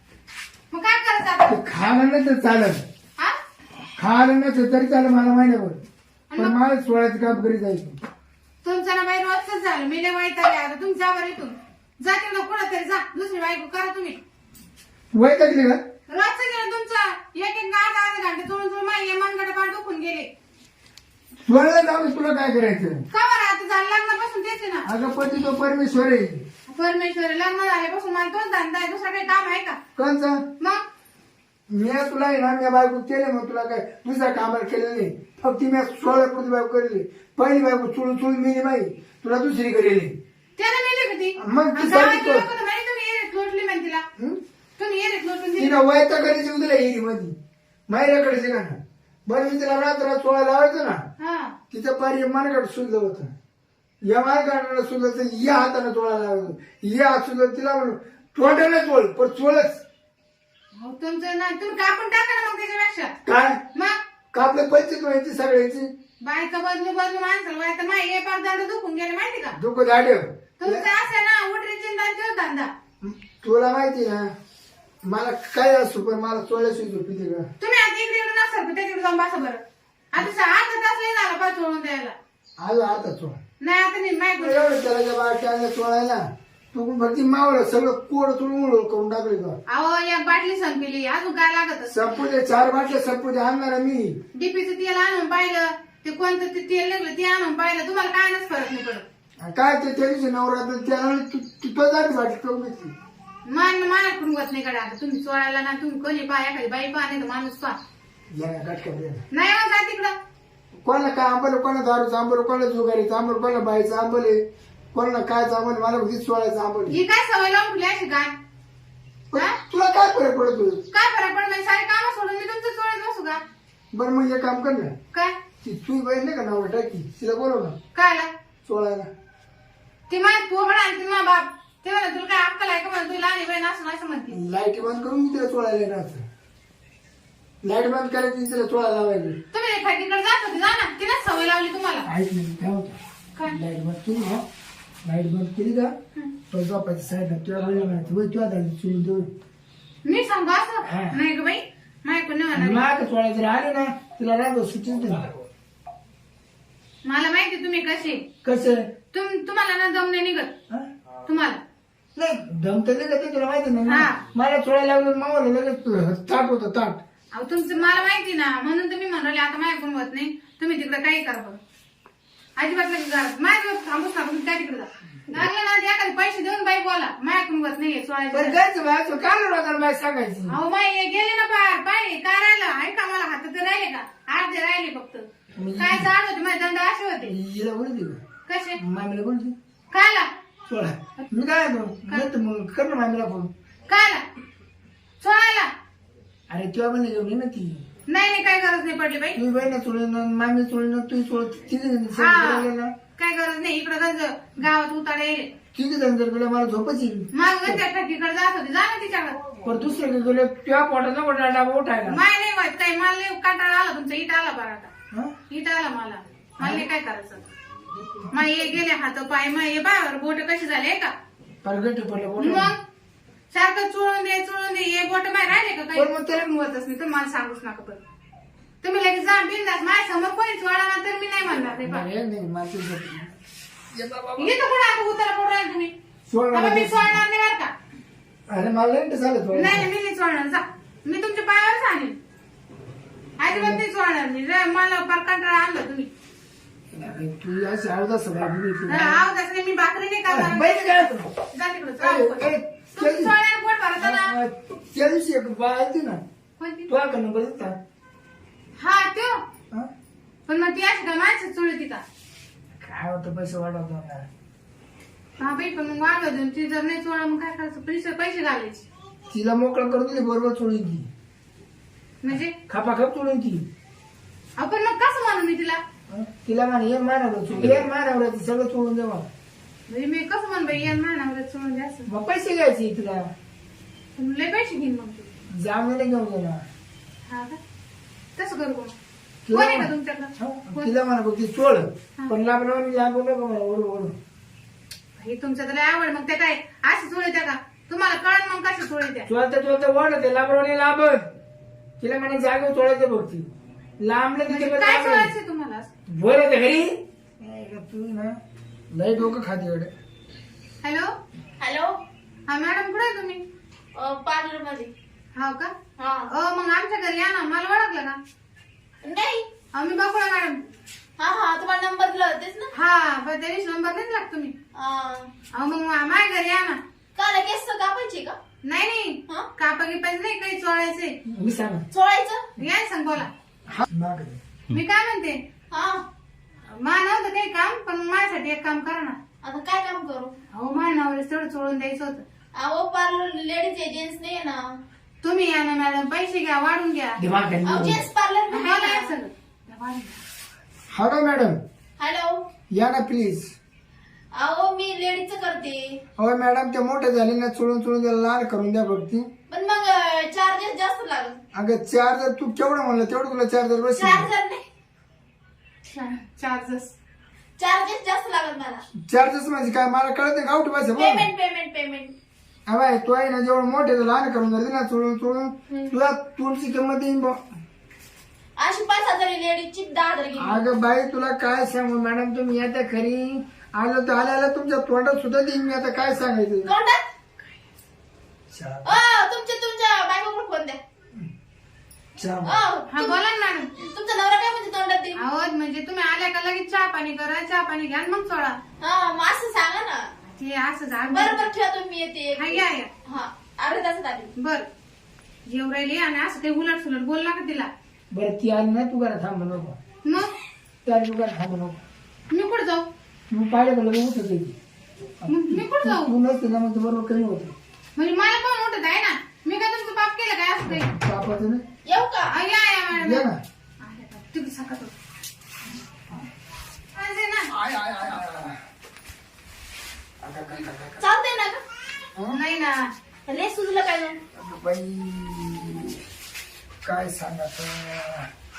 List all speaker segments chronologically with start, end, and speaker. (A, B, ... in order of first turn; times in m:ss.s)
0:00.7-0:01.6 A
0:01.5-0:02.8 B
0:04.0-0:05.8 B
0:06.3-0:06.6 A
0:06.4-0:08.0 B
0:08.6-0:14.2 A
0:15.1-0:15.8 B
0:16.1-0:20.3 A
0:21.5-0:23.0 B
0:23.1-0:24.8 A
0:24.8-0:26.4 B
0:26.7-0:29.8 A
0:30.0-0:30.4 B
0:31.7-0:40.1 B
0:40.6-0:44.0 A
0:41.4-0:42.5 B
0:44.8-0:45.8 A
0:45.6-0:47.3 B
0:47.9-0:51.0 B
0:51.2-0:51.5 A
0:51.7-0:53.3 B
0:54.1-0:59.8 B
1:00.8-1:03.1 A
1:03.2-1:03.6 B
1:04.3-1:05.9 B
1:06.2-1:09.6 A
1:09.5-1:10.9 B
1:10.6-1:12.7 A
1:13.0-1:14.3 B
1:15.0-1:17.5 B
1:17.6-1:19.6 A
1:20.1-1:22.1 A
1:22.6-1:23.4 B
1:23.6-1:24.6 A
1:24.4-1:29.6 B
1:29.7-1:32.0 A
1:31.9-1:34.2 B
1:34.3-1:39.0 A
1:39.4-1:42.9 B
1:43.5-1:47.8 A
1:48.3-1:49.2 B
1:49.3-1:50.1 A
1:50.8-1:54.4 B
1:54.9-1:57.0 B
1:56.9-1:58.3 A
1:59.3-2:00.8 B
2:00.9-2:03.4 A
2:03.9-2:04.9 B
2:05.6-2:07.8 B
2:07.9-2:08.3 A
2:08.6-2:09.1 B
2:10.1-2:14.4 A
2:14.3-2:16.2 B
2:17.6-2:19.4 B
2:19.5-2:22.1 A
2:22.1-2:22.9 B
2:23.4-2:24.4 B
2:25.0-2:25.9 B
2:26.5-2:29.3 B
2:30.0-2:32.8 A
2:30.8-2:31.2 B
2:32.6-2:35.3 B
2:37.0-2:38.2 A
2:38.4-2:38.8 B
2:39.1-2:40.5 A
2:41.2-2:41.6 A
2:42.2-2:47.0 B
2:43.8-2:44.2 A
2:47.3-2:51.6 A
2:52.6-2:58.6 A
2:58.3-3:00.6 B
3:00.5-3:05.2 A
3:05.6-3:06.1 B
3:05.8-3:07.3 A
3:07.2-3:08.2 B
3:08.4-3:08.8 A
3:08.8-3:09.5 B
3:09.9-3:10.3 A
3:10.7-3:13.5 B
3:13.9-3:14.2 A
3:15.2-3:15.7 A
3:16.5-3:17.8 B
3:18.1-3:19.4 A
3:19.3-3:22.9 B
3:22.2-3:25.5 A
3:25.7-3:27.8 B
3:27.3-3:29.4 A
3:29.6-3:32.2 B
3:32.1-3:34.9 A
3:35.5-3:37.4 A
3:36.6-3:36.9 B
3:38.3-3:41.1 A
3:41.6-3:42.7 B
3:42.4-3:42.8 A
3:43.5-3:48.0 A
3:45.9-3:46.4 B
3:48.8-3:52.1 A
3:51.6-3:53.3 B
3:53.9-3:54.5 B
3:54.4-3:55.9 A
3:56.3-3:57.2 B
3:56.5-3:57.7 A
3:58.5-3:59.9 B
3:59.5-4:02.2 A
4:03.4-4:06.1 A
4:03.5-4:03.8 B
4:06.9-4:09.2 B
4:08.9-4:11.0 A
4:10.3-4:11.3 B
4:11.5-4:14.3 A
4:12.0-4:13.3 B
4:14.0-4:16.2 B
4:16.6-4:16.9 A
4:16.9-4:17.8 B
4:18.8-4:19.4 A
4:20.5-4:22.0 A
4:22.8-4:24.3 B
4:25.4-4:28.9 A
4:29.3-4:31.0 B
4:32.2-4:32.5 A
4:32.6-4:33.6 B
4:34.6-4:35.8 A
4:36.1-4:39.3 B
4:39.9-4:42.0 A
4:42.1-4:43.3 B
4:44.2-4:45.3 A
4:45.5-4:46.6 B
4:47.3-4:47.6 A
4:48.4-4:48.9 A
4:49.4-4:54.1 B
4:49.5-4:50.9 A
4:55.2-4:59.3 A
4:59.3-5:01.2 B
5:02.0-5:03.5 B
5:04.0-5:05.3 B
5:04.5-5:05.9 A
5:06.1-5:08.3 B
5:08.9-5:09.9 B
5:10.8-5:11.1 A
5:11.6-5:11.9 C
5:12.5-5:13.4 A
5:13.9-5:14.9 C
5:15.3-5:15.7 A
5:16.0-5:16.3 C
5:16.3-5:18.2 A
5:19.0-5:19.5 C
5:19.7-5:20.6 A
5:21.2-5:22.7 C
5:22.7-5:24.5 A
5:24.7-5:25.3 C
5:25.5-5:26.8 A
5:27.2-5:28.4 C
5:28.6-5:31.1 A
5:31.3-5:31.8 B
5:31.9-5:32.4 C
5:32.6-5:33.3 A
5:33.7-5:34.4 B
5:34.7-5:35.4 A
5:35.7-5:36.0 C
5:36.7-5:39.2 A
5:39.4-5:40.4 C
5:40.5-5:42.2 A
5:42.5-5:44.6 C
5:45.2-5:47.2 A
5:47.2-5:48.0 B
5:47.6-5:49.1 C
5:48.5-5:50.2 A
5:50.9-5:51.6 B
5:52.0-5:52.4 C
5:52.7-5:53.5 B
5:54.3-5:56.0 C
5:56.2-5:59.3 B
5:59.5-6:01.4 C
6:01.5-6:04.3 B
6:04.0-6:04.6 C
6:05.9-6:06.9 A
6:07.6-6:08.8 C
6:09.1-6:11.3 B
6:11.0-6:12.1 C
6:12.7-6:17.4 B
6:18.6-6:20.6 C
6:20.4-6:26.7 B
6:26.6-6:27.0 C
6:28.5-6:29.0 B
6:28.8-6:30.8 C
6:32.2-6:32.6 B
6:32.4-6:33.2 C
6:32.9-6:33.7 A
6:33.8-6:35.2 C
6:35.2-6:38.6 A
6:38.8-6:40.0 C
6:40.3-6:41.4 A
6:41.1-6:44.3 C
6:42.4-6:42.9 A
6:44.4-6:44.7 A
6:45.5-6:47.7 A
6:48.1-6:49.8 B
6:50.0-6:50.3 A
6:50.8-6:51.8 B
6:52.3-6:52.8 A
6:53.3-6:54.5 B
6:55.2-6:57.5 B
6:55.3-6:56.1 A
6:58.0-7:00.9 A
7:00.6-7:01.6 B
7:01.8-7:02.3 C
7:02.3-7:03.2 A
7:03.0-7:03.4 B
7:03.8-7:04.9 A
7:06.9-7:07.5 A
7:07.5-7:08.6 B
7:10.2-7:11.0 B
7:11.0-7:11.6 C
7:12.3-7:12.8 A
7:13.3-7:14.2 C
7:14.3-7:16.0 B
7:16.8-7:18.3 B